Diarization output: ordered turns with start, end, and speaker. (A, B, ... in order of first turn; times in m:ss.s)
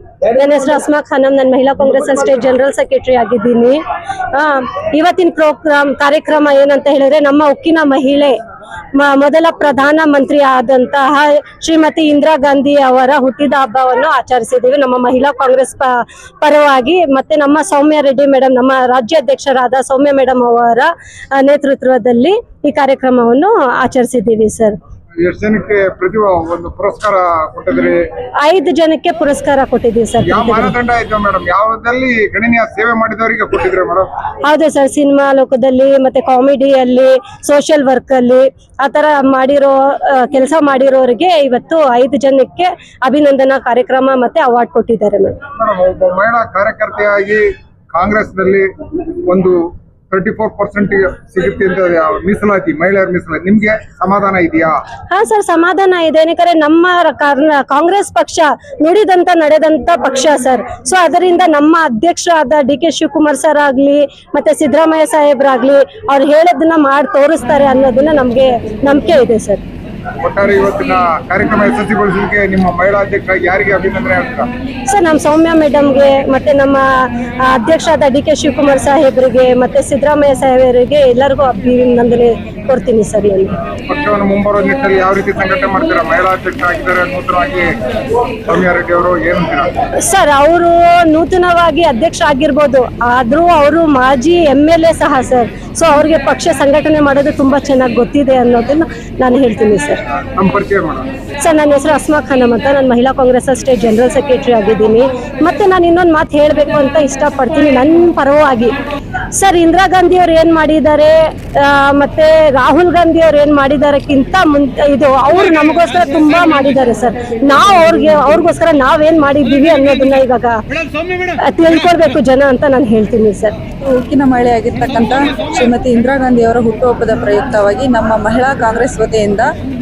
0:00.3-0:03.8 A
0:04.3-0:08.4 A
0:09.0-0:24.8 A
0:25.2-0:28.1 B
0:28.4-0:30.7 A
0:30.2-0:34.1 B
0:34.5-0:45.4 A
0:45.6-0:48.7 B
0:49.3-0:54.8 B
0:55.1-1:09.6 A
1:10.2-1:14.5 B
1:14.9-1:23.6 A
1:23.9-1:27.8 B
1:28.5-1:29.7 B
1:30.0-1:40.0 A
1:40.4-1:41.1 B
1:41.4-1:48.7 A
1:49.3-2:00.6 A
2:01.3-2:03.6 A
2:03.8-2:09.5 C